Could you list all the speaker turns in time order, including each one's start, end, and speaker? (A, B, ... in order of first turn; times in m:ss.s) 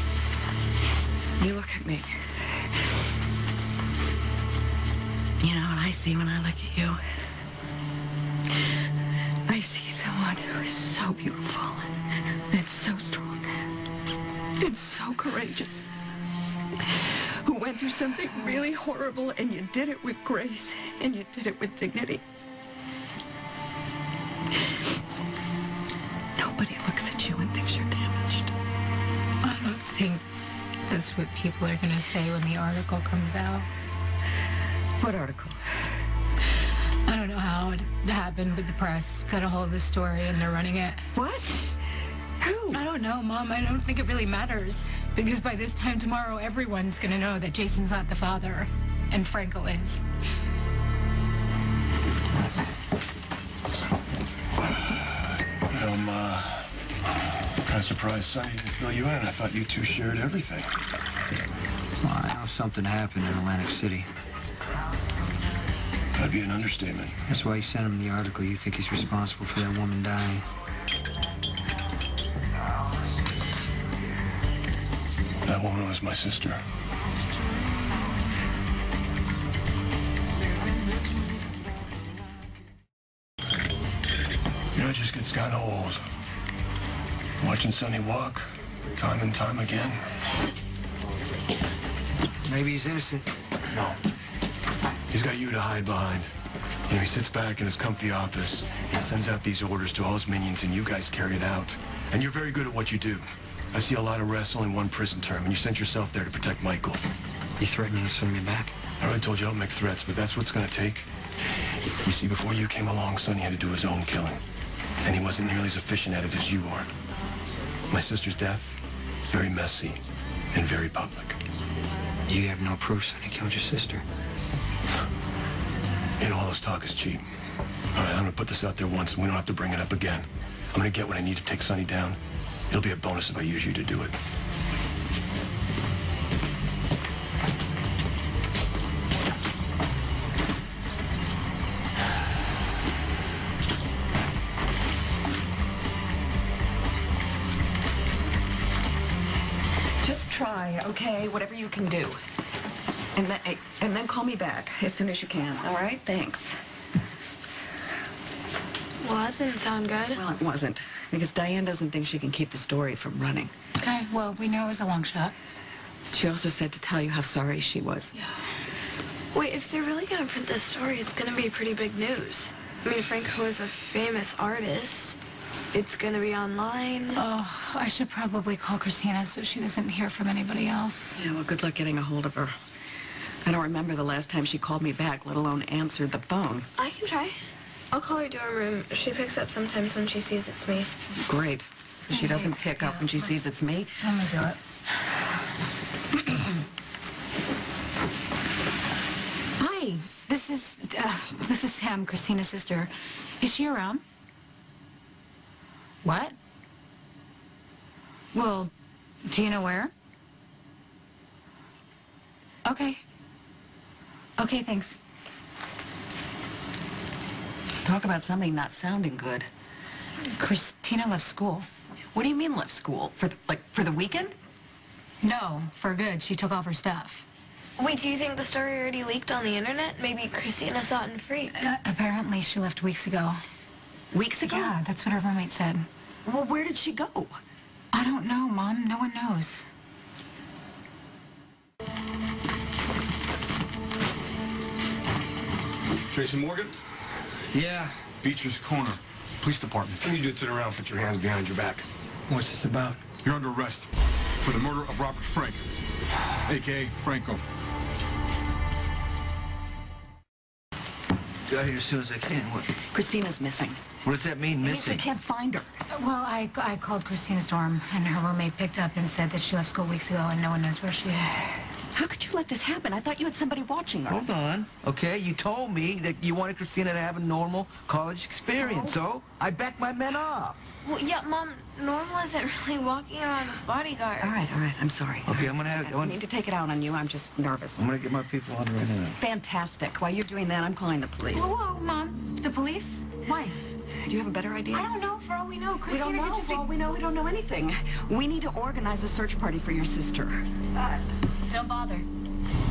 0:01.4-0:02.3 A
0:05.4-0:07.0 A
0:09.5-0:11.9 A
0:12.5-0:13.6 A
0:14.6-0:15.9 A
0:16.9-0:22.2 A
0:26.4-0:28.5 A
0:29.4-0:30.2 B
0:30.9-0:33.7 B
0:35.0-0:35.6 A
0:37.0-0:41.1 B
0:41.1-0:41.7 A
0:42.4-0:42.8 A
0:42.7-0:50.0 B
0:54.6-0:56.7 C
0:57.7-1:00.7 C
1:02.0-1:04.1 D
1:06.1-1:07.2 C
1:07.2-1:10.4 D
1:15.4-1:16.6 C
1:24.7-1:26.0 C
1:27.4-1:30.0 C
1:32.5-1:33.3 D
1:33.7-1:34.0 C
1:35.1-1:36.3 C
1:36.9-1:47.0 C
1:47.6-1:48.7 D
1:49.0-1:51.1 C
1:52.0-1:54.4 C
1:55.0-1:56.9 C
1:57.9-2:00.0 C
2:00.5-2:01.4 C
2:02.3-2:04.0 D
2:06.2-2:07.2 C
2:07.9-2:12.2 C
2:12.7-2:14.2 C
2:30.0-2:32.2 A
2:33.1-2:36.6 A
2:39.0-2:40.2 E
2:40.1-2:43.5 A
2:43.8-2:45.3 B
2:46.1-2:48.1 A
2:49.3-2:55.2 E
2:55.7-2:57.2 E
2:57.1-3:01.2 B
3:01.1-3:02.6 A
3:03.4-3:06.7 A
3:06.8-3:10.9 E
3:11.2-3:14.0 A
3:12.1-3:13.3 B
3:14.0-3:14.6 B
3:19.6-3:24.0 B
3:26.0-3:26.3 B
3:28.3-3:28.7 B
3:29.2-3:29.9 B
3:32.6-3:33.0 B
3:34.4-3:35.0 B
3:37.8-3:39.5 A
3:40.4-3:41.7 B
3:42.1-3:44.3 A
3:45.2-3:47.2 B
3:47.8-3:51.6 E
3:51.6-3:53.4 B
3:54.1-3:54.8 A
3:54.4-3:55.9 B
3:56.2-3:57.4 A
3:57.9-3:59.7 B
4:06.1-4:06.7 F
4:07.5-4:08.0 D
4:08.2-4:11.8 F
4:10.0-4:10.3 C
4:12.3-4:13.0 D
4:13.2-4:13.9 F
4:14.4-4:15.6 F
4:16.4-4:17.4 F
4:21.5-4:22.7 G
4:22.9-4:23.8 A
4:24.0-4:25.1 G
4:24.6-4:25.7 A
4:25.9-4:31.5 B
4:31.9-4:34.3 A
4:34.1-4:40.6 G
4:38.5-4:39.0 A
4:40.8-4:44.6 E
4:44.2-4:47.9 A
4:45.2-4:46.2 G
4:47.8-4:49.2 G
4:49.2-4:51.5 A
4:51.3-4:53.6 B
4:53.9-4:54.9 A
4:54.7-4:56.7 B
4:55.9-5:00.4 A
5:00.7-5:02.1 B